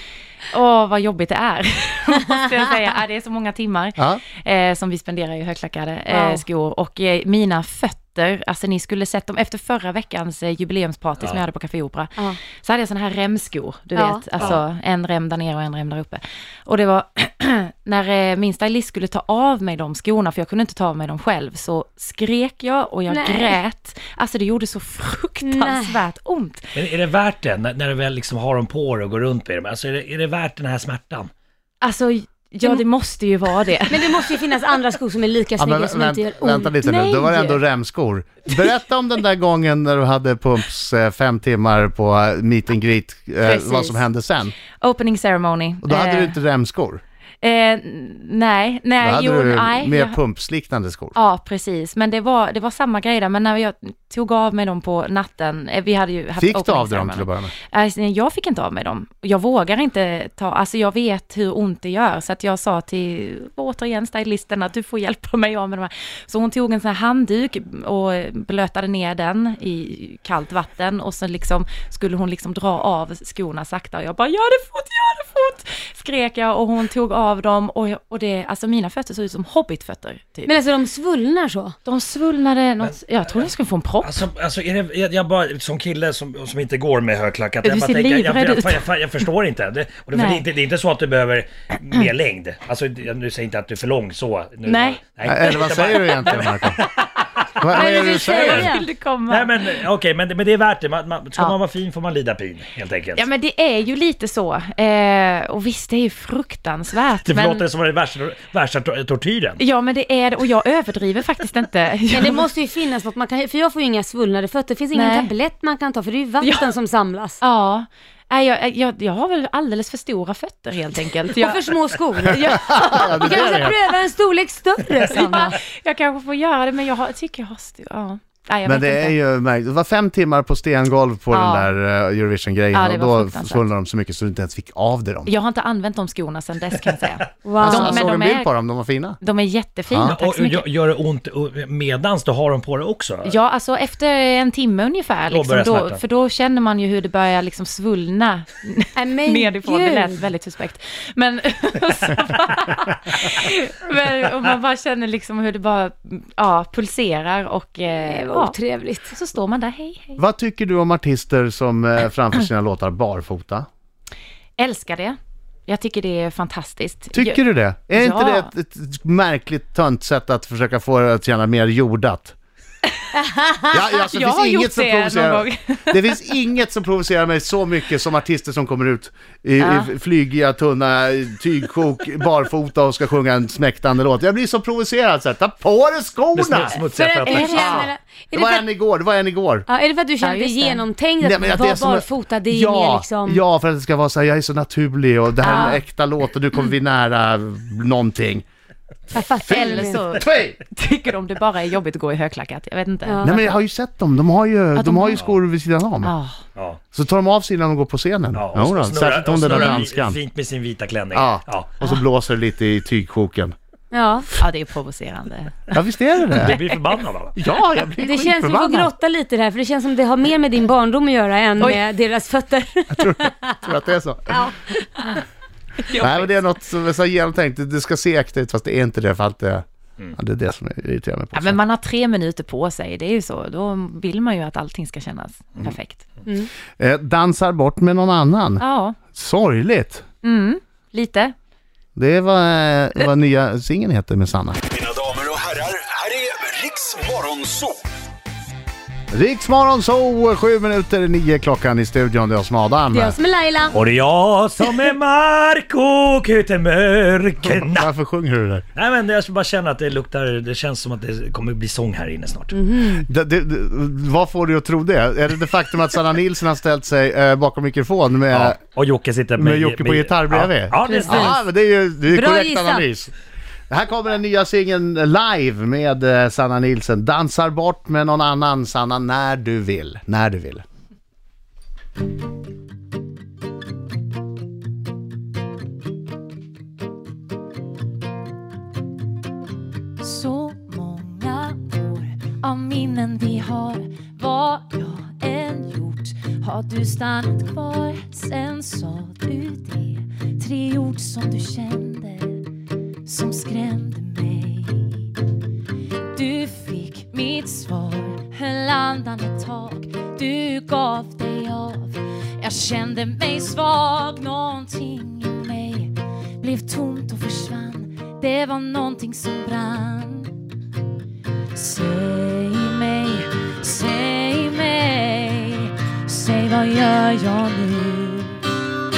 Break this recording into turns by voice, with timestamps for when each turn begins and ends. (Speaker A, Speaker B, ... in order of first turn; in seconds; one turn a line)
Speaker A: 0.5-26.8
Speaker B: 6.1-6.4
Speaker B: 14.0-14.2
Speaker B: 23.1-23.6
Speaker B: 25.4-26.0
Speaker C: 26.8-31.3
Speaker A: 31.8-34.2
Speaker B: 33.9-36.7
Speaker D: 35.6-44.5
Speaker A: 36.8-37.6
Speaker A: 43.4-44.0
Speaker A: 44.7-46.4
Speaker D: 45.8-47.0
Speaker A: 47.4-50.2
Speaker D: 49.0-51.2
Speaker A: 51.1-80.5
Speaker D: 56.4-57.5
Speaker B: 80.5-81.8
Speaker A: 81.8-84.2
Speaker C: 82.8-83.5
Speaker C: 84.0-97.1
Speaker A: 87.6-88.9
Speaker A: 90.1-90.5
Speaker A: 94.7-95.0
Speaker D: 95.2-96.8
Speaker D: 97.6-98.7
Speaker A: 97.7-99.7
Speaker B: 97.7-98.9
Speaker C: 98.4-98.7
Speaker C: 99.3-103.3
Speaker A: 103.2-107.6
Speaker C: 107.2-109.6
Speaker A: 109.6-112.5
Speaker B: 112.1-117.4
Speaker A: 114.9-115.3
Speaker A: 116.4-116.7
Speaker A: 117.4-123.7
Speaker B: 121.3-125.6
Speaker D: 122.3-123.8
Speaker A: 125.1-129.2
Speaker D: 128.7-135.3
Speaker A: 131.3-131.7
Speaker A: 132.7-133.7
Speaker A: 135.3-138.5
Speaker B: 137.4-138.2
Speaker D: 137.6-139.2
Speaker A: 139.2-140.7
Speaker D: 139.9-140.2
Speaker C: 140.0-143.3
Speaker A: 143.2-158.6
Speaker C: 145.3-146.0
Speaker B: 149.0-150.2
Speaker B: 158.0-159.1
Speaker A: 159.1-160.2
Speaker D: 160.2-163.7
Speaker A: 164.6-167.4
Speaker D: 167.1-172.3
Speaker A: 167.9-168.5
Speaker A: 173.0-176.2
Speaker D: 173.7-186.8
Speaker A: 179.6-179.9
Speaker C: 186.3-187.7
Speaker B: 186.9-188.7
Speaker A: 187.2-187.9
Speaker D: 187.4-189.7
Speaker B: 189.7-193.4
Speaker A: 190.2-190.8
Speaker D: 191.2-198.4
Speaker A: 195.4-195.8
Speaker B: 195.4-195.8
Speaker B: 199.1-200.0
Speaker D: 199.4-200.6
Speaker A: 199.5-203.6
Speaker B: 203.1-203.3
Speaker D: 203.2-206.1
Speaker A: 204.8-205.2
Speaker A: 206.0-206.4
Speaker D: 206.9-210.2
Speaker C: 208.3-211.7
Speaker D: 211.1-213.6
Speaker B: 213.9-214.3
Speaker A: 214.4-215.8
Speaker D: 215.7-216.6
Speaker C: 216.4-217.4
Speaker D: 217.3-218.9
Speaker B: 218.0-223.6
Speaker D: 222.9-224.4
Speaker B: 224.3-224.7
Speaker A: 225.9-226.4
Speaker D: 225.9-231.6
Speaker A: 231.3-236.1
Speaker D: 236.8-240.1
Speaker A: 238.6-239.0
Speaker A: 240.2-241.3
Speaker D: 242.0-244.6
Speaker E: 244.8-247.7
Speaker D: 249.1-253.2
Speaker B: 252.9-253.8
Speaker C: 253.7-257.9
Speaker D: 257.5-258.6
Speaker C: 258.8-262.5
Speaker B: 262.5-263.1
Speaker D: 263.0-268.6
Speaker C: 268.3-271.4
Speaker D: 269.4-273.1
Speaker B: 270.9-271.4
Speaker B: 272.1-272.9
Speaker D: 273.7-280.6
Speaker A: 290.0-302.5
Speaker A: 303.1-305.1
Speaker A: 306.1-320.3
Speaker A: 321.5-328.5